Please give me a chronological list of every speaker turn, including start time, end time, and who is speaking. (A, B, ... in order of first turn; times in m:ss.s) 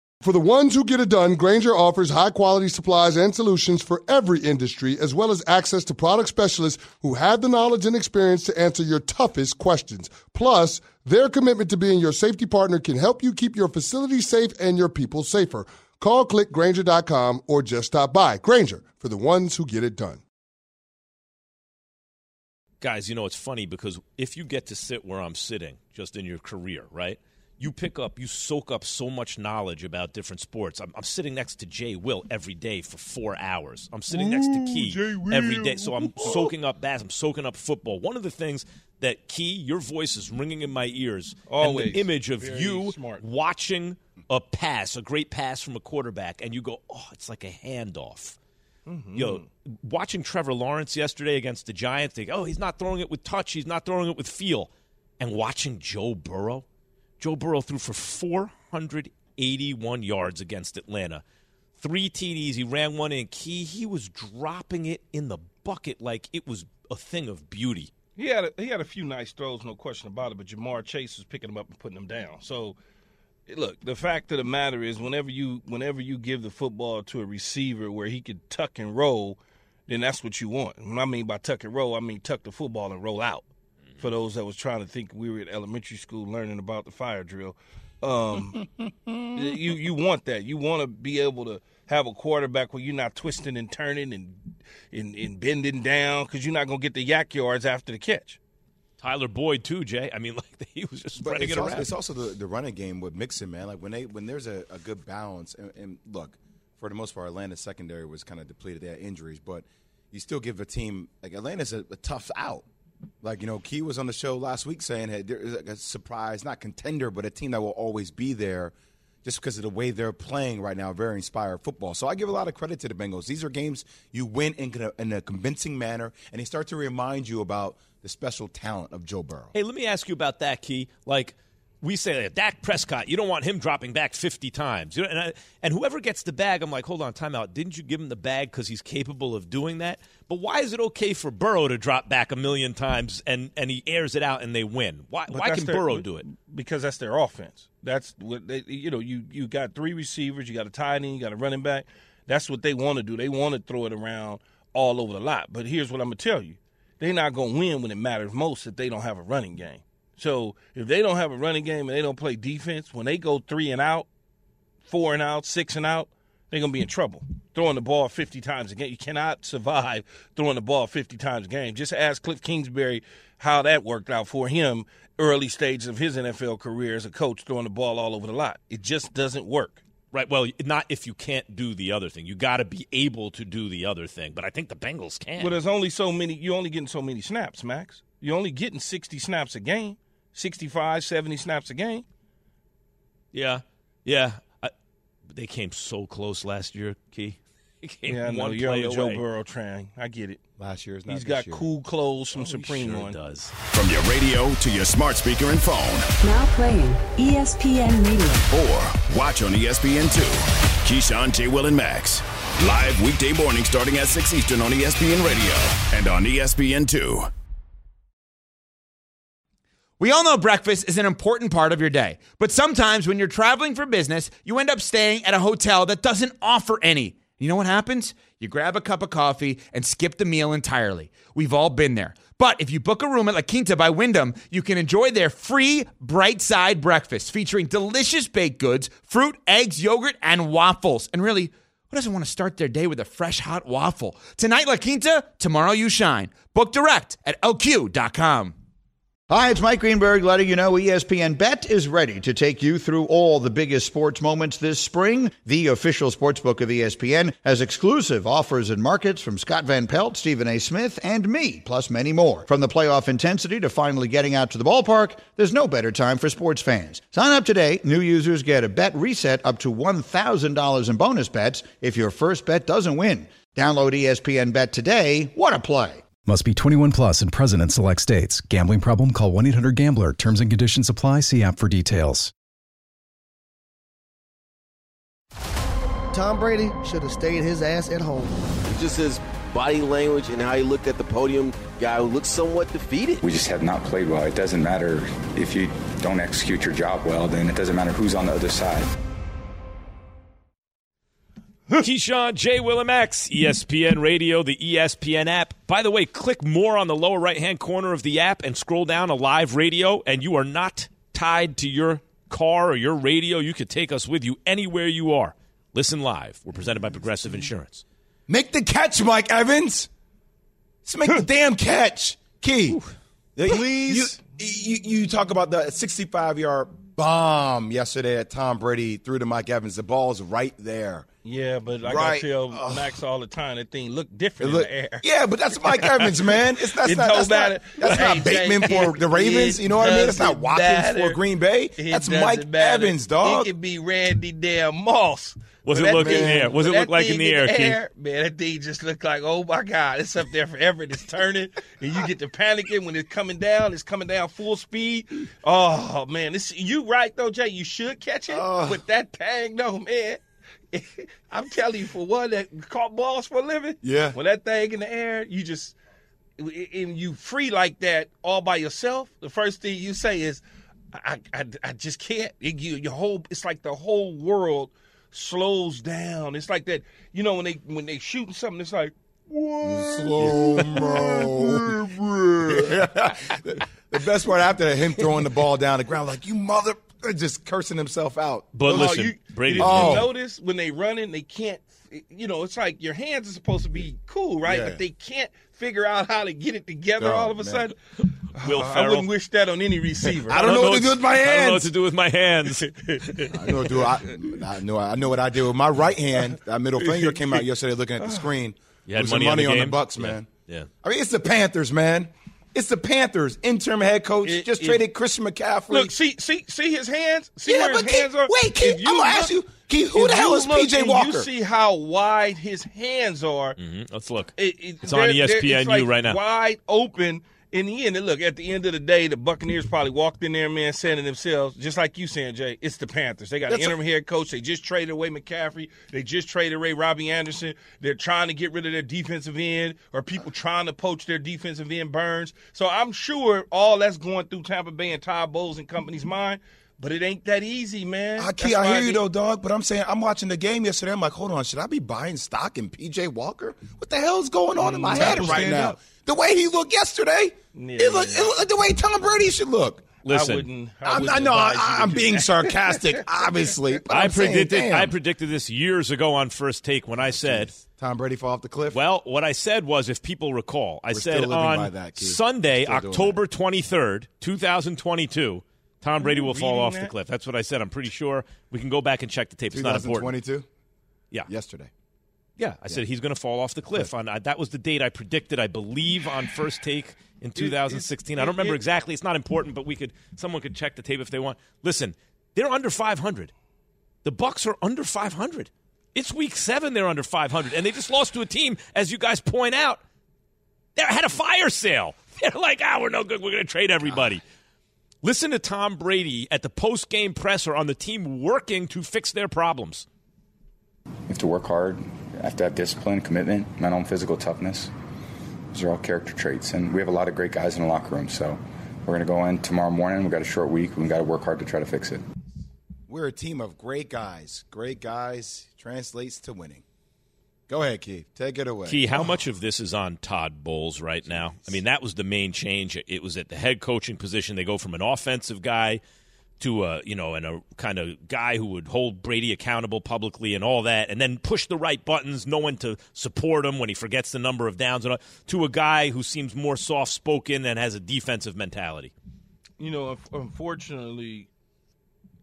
0:00.2-0:20.2 A
0:22.8-0:48.4 B
0:34.1-0:36.5 C
0:41.5-0:43.2 C
0:48.8-0:49.4 C
0:49.1-0:56.6 B
0:57.2-1:01.2 B
1:01.8-1:07.9 B
1:08.2-1:12.8 C
1:13.5-1:23.4 C
1:24.0-1:28.7 C
1:29.3-1:38.4 C
1:39.0-1:41.9 B
1:41.2-1:52.6 D
1:53.2-1:58.7 D
1:59.2-2:09.5 D
2:09.5-2:26.2 B
2:25.3-2:44.1 C
2:44.8-2:59.8 C
3:00.1-3:05.6 B
3:05.4-3:12.0 C
3:13.3-3:14.7 B
3:15.3-3:19.2 B
3:18.1-3:20.4 C
3:20.6-3:21.7 D
3:21.1-3:23.2 C
3:22.4-3:23.5 B
3:23.7-3:26.1 E
3:26.2-3:28.5 F
3:28.5-3:37.3 E
3:40.0-4:08.6 G
4:09.3-4:36.0 H
4:36.2-4:42.3 I
4:46.1-4:48.3 J
4:48.6-4:53.2 K
4:53.2-4:58.9 L
5:01.8-5:17.8 B
5:18.3-5:19.9 D
5:20.8-5:22.8 D
5:23.4-5:31.1 D
5:23.5-5:24.1 C
5:31.2-5:35.0 C
5:31.8-5:32.9 D
5:34.4-5:43.5 D
5:35.6-5:41.2 C
5:41.8-6:00.2 C
5:45.6-5:47.8 B
5:45.8-5:46.5 D
5:58.3-5:58.8 D
6:00.7-6:05.7 C
6:03.8-6:04.2 D
6:06.4-6:10.4 C
6:10.9-6:21.9 C
6:19.6-6:30.1 D
6:22.4-6:22.9 C
6:28.5-6:30.1 B
6:28.7-6:37.7 C
6:34.4-6:34.8 D
6:37.0-6:37.7 D
6:38.3-6:39.1 B
6:38.3-6:40.5 C
6:40.2-6:41.7 D
6:40.3-6:43.3 B
6:42.9-6:43.8 C
6:43.3-6:50.3 D
6:46.8-6:47.4 C
6:48.0-6:48.3 C
6:48.9-6:50.7 B
6:50.8-6:55.9 D
6:54.2-6:54.8 C
6:55.7-6:59.4 C
6:57.4-7:01.3 D
6:59.9-7:03.6 C
7:03.6-7:06.2 B
7:04.4-7:29.0 C
7:13.5-7:13.8 D
7:28.2-7:39.9 D
7:34.6-7:35.7 C
7:37.5-7:38.3 C
7:40.0-7:40.5 B
7:40.1-7:43.0 C
7:40.8-7:44.9 D
7:43.9-7:47.5 B
7:47.0-7:48.8 D
7:48.7-8:00.1 B
7:50.9-7:53.2 D
7:56.0-7:56.9 C
7:59.5-8:00.4 D
8:01.3-8:01.7 D
8:02.4-8:13.3 B
8:07.4-8:08.6 C
8:14.0-8:19.8 B
8:20.8-8:24.2 B
8:25.0-8:29.8 B
8:31.1-8:34.7 L
8:35.5-8:42.0 L
8:42.9-8:46.6 D
8:47.5-8:49.1 D
8:48.6-8:55.8 B
8:51.1-8:51.5 D
8:56.4-9:08.9 B
9:09.6-9:11.3 C